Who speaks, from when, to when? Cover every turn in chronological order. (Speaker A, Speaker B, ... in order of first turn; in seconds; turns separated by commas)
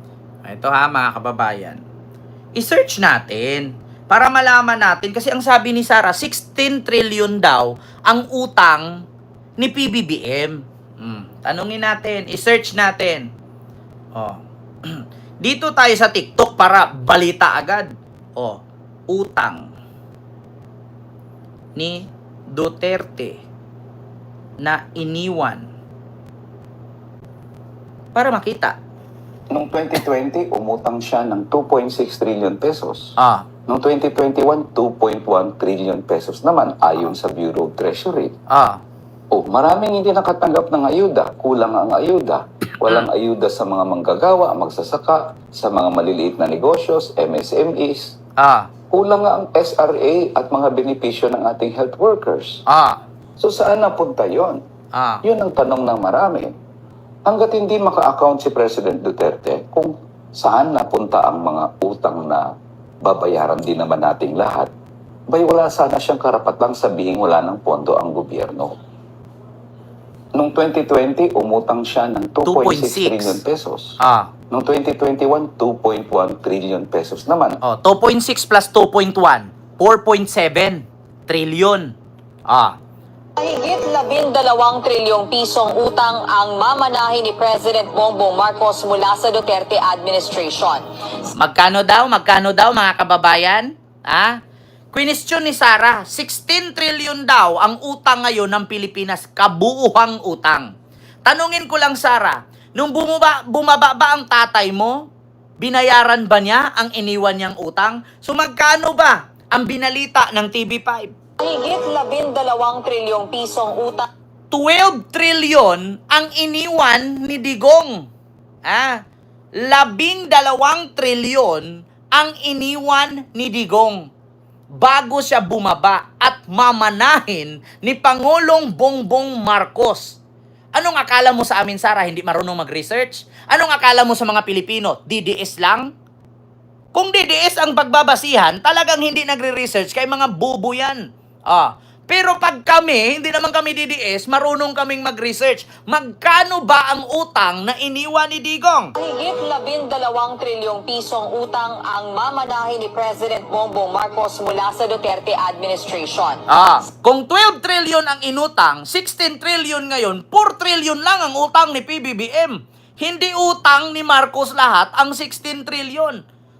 Speaker A: 0.4-1.8, Speaker A: 2.5-9.0, Speaker A: 9.6-13.3, Speaker A: 14.1-19.7, Speaker A: 21.8-23.4, Speaker A: 24.6-25.6, Speaker A: 28.1-28.8, Speaker B: 29.5-33.1, Speaker A: 33.2-33.5, Speaker B: 33.7-38.3, Speaker A: 38.5-38.8, Speaker B: 39.3-48.1, Speaker A: 48.4-48.7, Speaker B: 48.9-52.6, Speaker A: 52.7-53.0, Speaker B: 53.4-54.6, Speaker A: 54.9-55.2, Speaker B: 55.2-56.5, Speaker B: 57.2-62.5, Speaker B: 63.0-64.7, Speaker B: 65.3-68.8, Speaker B: 70.3-74.0, Speaker A: 72.5-73.4, Speaker A: 74.0-74.3, Speaker B: 74.5-77.6, Speaker A: 77.6-81.9, Speaker A: 82.5-82.8, Speaker C: 83.4-90.8, Speaker A: 91.3-94.3, Speaker A: 94.9-100.7, Speaker A: 101.2-105.0, Speaker A: 105.6-111.1, Speaker C: 111.4-114.1, Speaker A: 114.5-118.1, Speaker A: 118.6-119.0, Speaker A: 119.6-124.1, Speaker A: 124.8-130.2, Speaker A: 130.8-135.9, Speaker A: 136.9-148.9, Speaker C: 149.0-156.4, Speaker A: 156.5-166.2